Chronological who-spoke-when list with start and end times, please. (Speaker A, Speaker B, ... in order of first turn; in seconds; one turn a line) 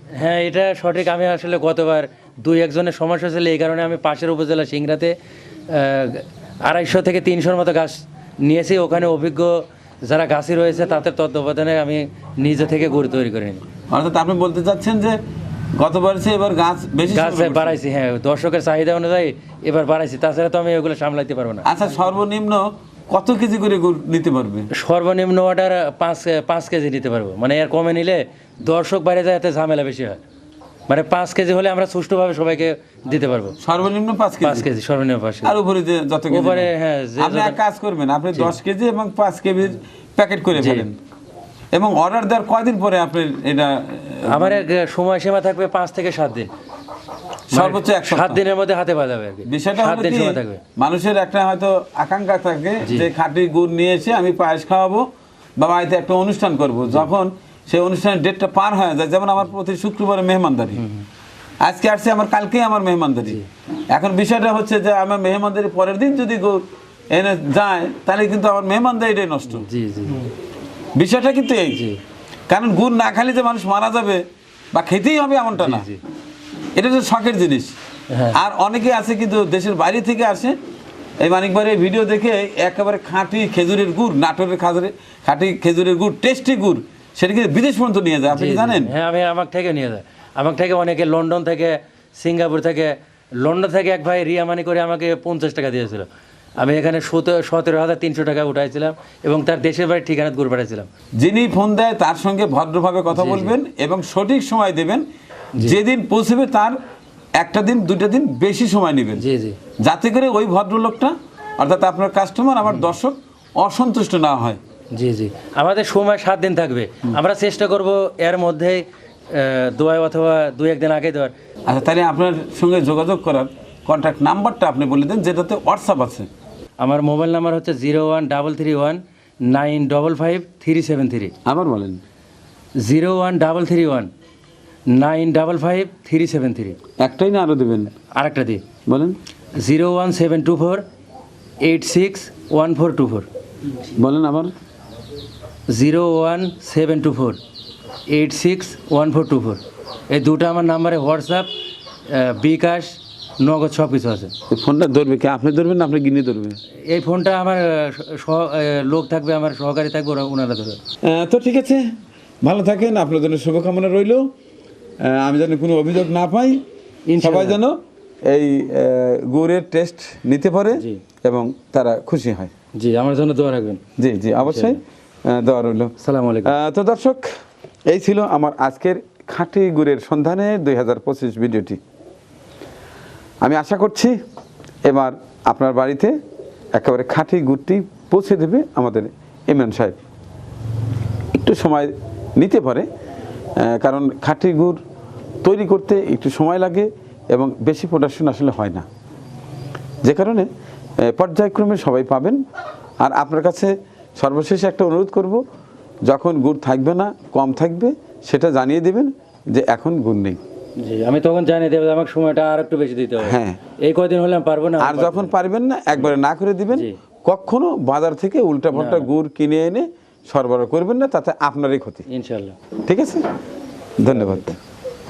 Speaker A: 0.1-5.2
Speaker A: 5.7-13.7
Speaker B: 13.9-15.2
Speaker B: 15.7-17.8
Speaker A: 17.1-21.7
Speaker B: 21.6-24.7
Speaker A: 24.8-30.2
Speaker A: 30.9-33.6
Speaker B: 33.6-34.7
Speaker A: 34.4-35.6
Speaker B: 35.4-41.0
Speaker A: 36.3-37.6
Speaker A: 40.6-40.9
Speaker B: 41.7-44.6
Speaker A: 44.3-46.5
Speaker B: 47.5-48.4
Speaker A: 47.5-50.6
Speaker B: 49.5-55.1
Speaker A: 52.8-53.1
Speaker B: 55.6-60.8
Speaker A: 60.8-61.1
Speaker B: 61.6-63.4
Speaker B: 63.9-69.7
Speaker A: 69.6-70.3
Speaker B: 71.0-71.8
Speaker A: 71.7-72.0
Speaker B: 72.5-75.9
Speaker A: 75.6-76.0
Speaker B: 76.8-77.8
Speaker B: 78.3-80.6
Speaker B: 81.2-88.9
Speaker A: 88.3-96.1
Speaker A: 96.6-100.9
Speaker B: 101.2-105.1
Speaker A: 103.1-103.5
Speaker B: 105.6-106.8
Speaker B: 107.4-109.2
Speaker A: 109.2-109.6
Speaker B: 109.8-114.6
Speaker A: 114.9-121.3
Speaker B: 121.7-126.3
Speaker A: 126.8-131.3
Speaker B: 131.4-132.0
Speaker A: 132.8-134.1
Speaker A: 134.9-136.8
Speaker B: 137.0-138.0
Speaker A: 138.1-138.7
Speaker B: 138.9-139.2
Speaker A: 139.5-140.8
Speaker A: 141.6-143.3
Speaker B: 143.9-144.5
Speaker A: 145.7-147.4
Speaker A: 148.1-151.5
Speaker A: 152.1-154.3
Speaker B: 154.5-156.6
Speaker A: 156.9-160.8
Speaker B: 161.0-164.3
Speaker B: 165.0-166.6
Speaker A: 167.1-167.6
Speaker B: 167.2-172.5
Speaker A: 170.8-171.0
Speaker A: 172.8-173.8
Speaker B: 174.0-175.9
Speaker A: 174.4-174.8
Speaker A: 176.0-176.5
Speaker B: 176.4-177.3
Speaker B: 177.9-181.8
Speaker B: 183.4-184.2
Speaker B: 184.8-186.2
Speaker B: 186.7-190.0
Speaker B: 191.3-192.9
Speaker B: 193.6-194.8
Speaker B: 195.4-198.9
Speaker B: 200.0-200.5
Speaker B: 201.0-202.4
Speaker B: 203.0-205.4
Speaker B: 206.1-210.4
Speaker A: 210.8-215.3
Speaker B: 213.2-213.6
Speaker B: 214.8-222.1
Speaker A: 218.8-219.1
Speaker A: 222.1-222.6
Speaker B: 222.9-223.2
Speaker B: 224.0-224.6
Speaker A: 224.1-224.4